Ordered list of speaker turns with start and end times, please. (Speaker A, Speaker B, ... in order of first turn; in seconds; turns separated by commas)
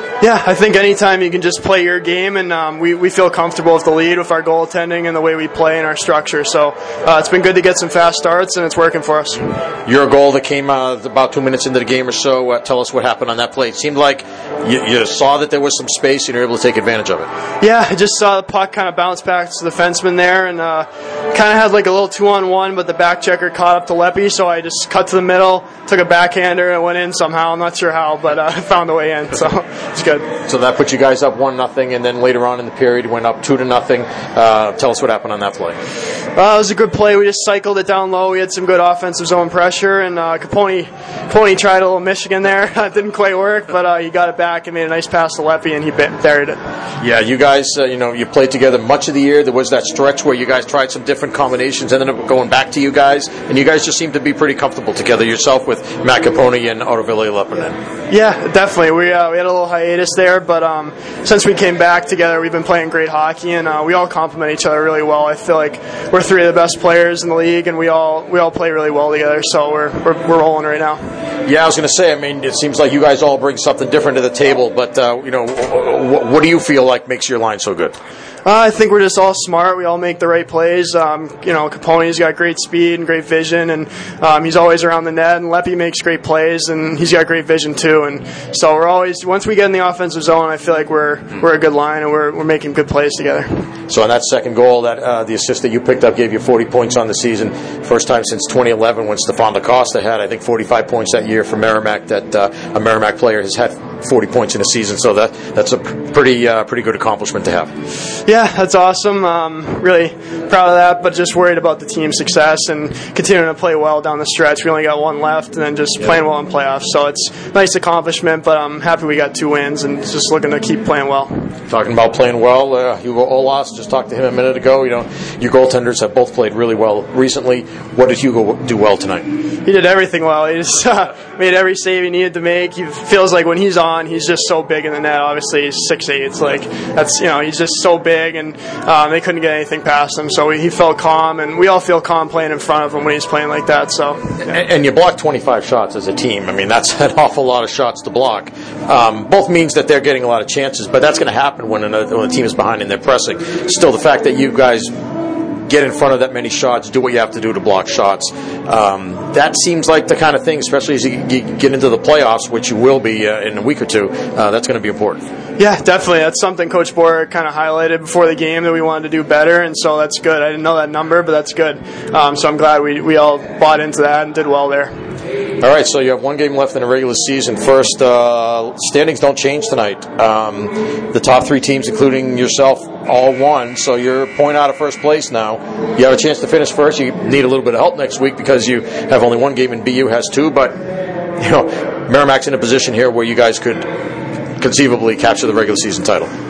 Speaker A: 0.2-9.4, Speaker B: 9.9-17.3, Speaker A: 17.6-30.3, Speaker B: 30.5-35.8, Speaker A: 36.4-46.6, Speaker B: 47.0-57.8, Speaker A: 58.1-71.0, Speaker B: 71.5-78.0, Speaker A: 78.5-93.6, Speaker B: 93.9-107.7, Speaker A: 108.3-121.3, Speaker B: 121.7-129.3, Speaker A: 129.7-144.4, Speaker B: 144.4-154.9, Speaker B: 155.7-165.2, Speaker A: 165.6-174.9, Speaker B: 175.6-190.8, Speaker B: 191.4-193.9, Speaker B: 194.6-196.3